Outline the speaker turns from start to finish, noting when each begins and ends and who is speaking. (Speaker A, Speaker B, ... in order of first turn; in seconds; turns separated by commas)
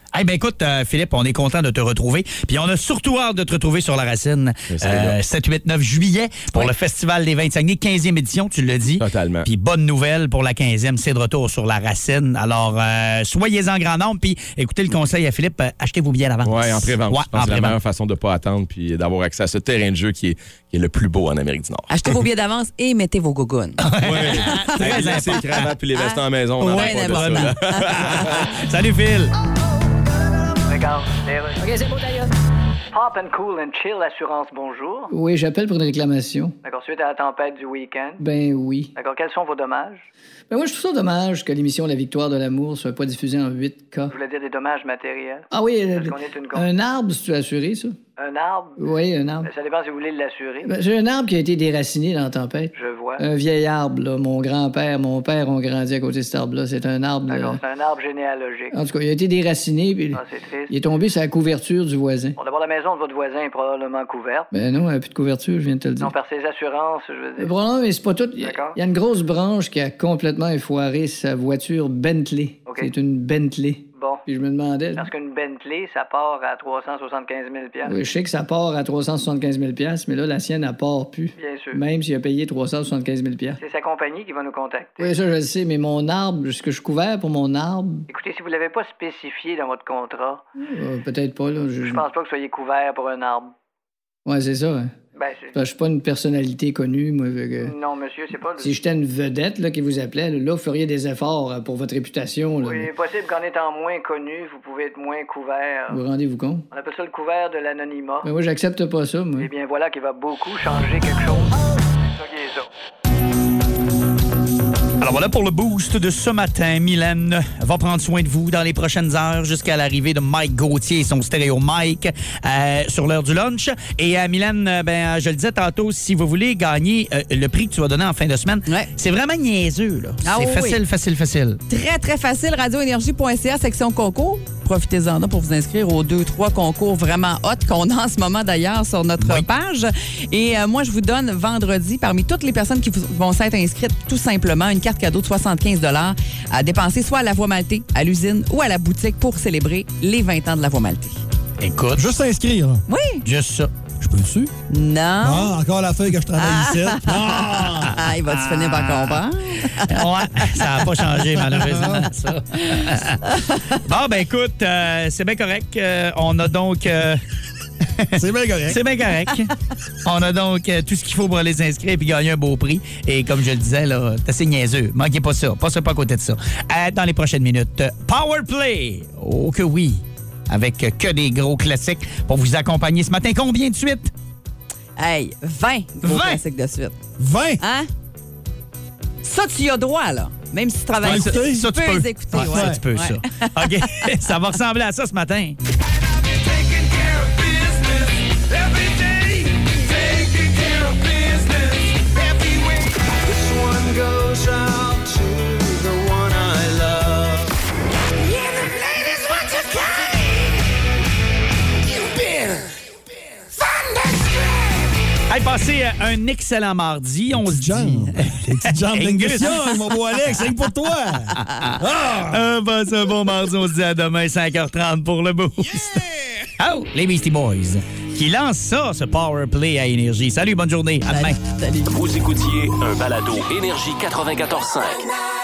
Speaker A: 0.1-17.8, Speaker B: 4.7-5.2, Speaker B: 9.0-9.5, Speaker B: 16.4-21.9, Speaker C: 21.9-25.4, Speaker A: 23.8-25.7, Speaker B: 24.0-28.5, Speaker C: 25.9-28.3, Speaker A: 26.6-29.3, Speaker D: 30.6-32.3, Speaker D: 32.9-35.1, Speaker E: 35.1-36.5, Speaker D: 36.6-38.2, Speaker E: 38.2-38.9, Speaker D: 39.0-40.1, Speaker E: 40.5-44.1, Speaker D: 44.1-46.7, Speaker E: 45.5-48.0, Speaker D: 48.2-48.8, Speaker E: 48.8-49.5, Speaker D: 49.4-50.7, Speaker E: 50.6-57.6, Speaker D: 52.8-53.2, Speaker D: 57.3-58.8, Speaker E: 58.7-62.4, Speaker D: 60.1-60.7, Speaker D: 62.4-64.5, Speaker E: 64.5-66.1, Speaker D: 66.0-67.5, Speaker E: 67.4-75.1, Speaker D: 68.4-68.8, Speaker D: 72.7-72.9, Speaker D: 74.0-74.2, Speaker D: 75.0-78.0, Speaker E: 77.8-83.6, Speaker D: 81.4-81.8, Speaker D: 83.6-85.1, Speaker E: 85.0-88.1, Speaker D: 88.1-90.5, Speaker E: 90.6-92.0, Speaker D: 91.8-93.5, Speaker E: 94.3-95.0, Speaker D: 95.2-95.5, Speaker E: 95.5-97.7, Speaker D: 97.6-98.7, Speaker E: 98.6-102.9, Speaker D: 102.6-106.0, Speaker E: 105.9-106.7, Speaker D: 106.7-108.3, Speaker E: 108.2-109.5, Speaker D: 109.4-112.7, Speaker A: 115.0-131.6, Speaker C: 130.2-130.8, Speaker C: 131.7-151.2, Speaker A: 139.2-139.5, Speaker A: 151.6-152.0, Speaker F: 152.0-152.8, Speaker C: 152.9-153.2, Speaker A: 153.2-153.7, Speaker F: 154.0-154.5, Speaker C: 154.7-155.6, Speaker F: 155.2-158.0, Speaker C: 156.4-160.5, Speaker A: 158.3-159.2, Speaker A: 159.8-163.2, Speaker F: 161.5-162.1, Speaker C: 162.6-163.8, Speaker A: 163.8-167.2, Speaker F: 168.2-168.8, Speaker A: 168.7-169.5, Speaker A: 170.1-184.1, Speaker C: 185.0-187.0, Speaker A: 186.0-186.4, Speaker F: 187.2-187.6, Speaker C: 187.6-187.9, Speaker C: 189.2-194.1, Speaker F: 191.0-191.7, Speaker A: 191.0-195.6, Speaker F: 192.3-192.8, Speaker A: 215.3-219.6, Speaker F: 217.3-222.5, Speaker A: 221.5-226.0, Speaker A: 226.6-231.4, Speaker C: 231.1-231.9, Speaker G: 231.9-235.1